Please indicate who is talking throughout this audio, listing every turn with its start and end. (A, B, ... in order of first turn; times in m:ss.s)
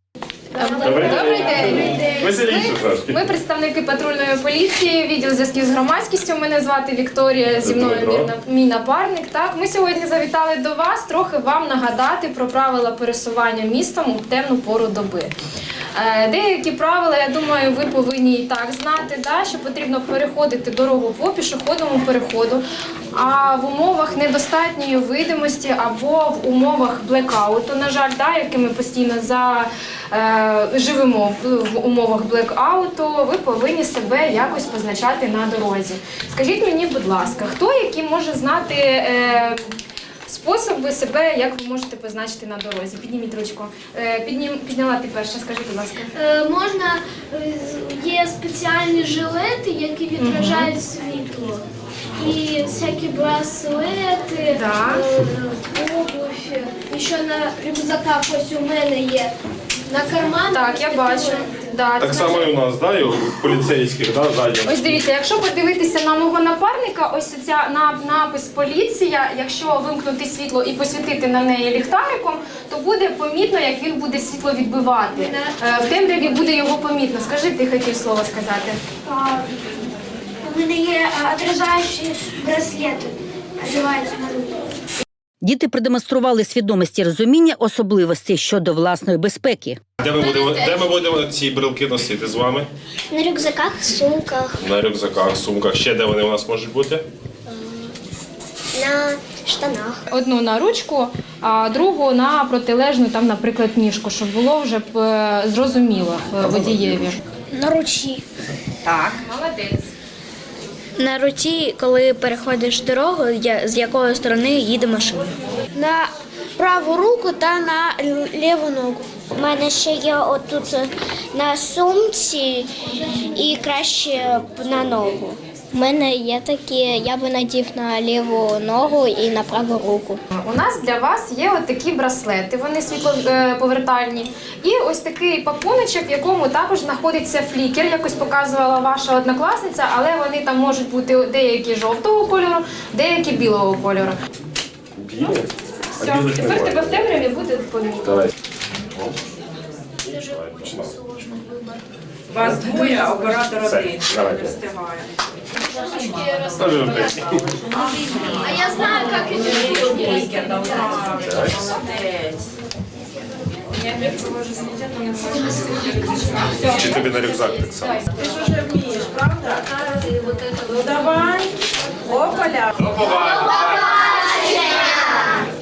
0:00.5-0:02.4 A
0:00.6-0:15.3 B
0:00.8-0:03.2 C
0:07.6-0:08.3 C
0:15.9-0:39.7 B
0:40.3-0:46.1 B
0:46.1-0:51.6 A
0:50.2-0:50.7 B
0:52.2-0:59.3 A
0:54.5-0:55.1 B
0:59.9-1:01.7 A
1:00.5-1:02.5 B
1:02.0-1:04.9 C
1:04.6-1:18.8 B
1:15.1-1:16.1 A
1:19.1-1:19.6 A
1:20.4-1:24.6 A
1:25.4-1:29.8 D
1:30.0-1:32.7 C
1:30.2-1:30.9 A
1:33.1-1:34.6 E
1:34.6-1:37.0 C
1:37.5-1:37.9 E
1:38.7-1:40.0 E
1:40.1-1:47.2 B
1:46.5-1:46.8 C
1:47.6-1:48.0 F
1:49.0-1:49.9 B
1:51.0-1:55.3 F
1:55.8-1:59.2 A
1:59.4-2:02.7 E
2:03.3-2:10.2 E
2:10.4-2:24.2 B
2:25.0-2:27.0 C
2:26.0-2:28.3 B
2:28.1-2:28.3 C
2:30.1-2:31.8 A
2:30.1-2:31.0 C
2:32.3-2:35.1 G
2:32.4-2:32.9 C
2:33.4-2:34.6 C
2:35.7-2:37.1 A
2:36.6-2:37.6 C
2:37.7-2:38.5 G
2:38.3-2:41.0 A
2:39.3-2:42.5 G
2:41.1-2:41.7 C
2:43.8-2:45.8 G
2:45.4-2:46.4 A
2:46.4-2:46.7 G
2:46.6-2:48.0 C
2:48.1-2:53.6 G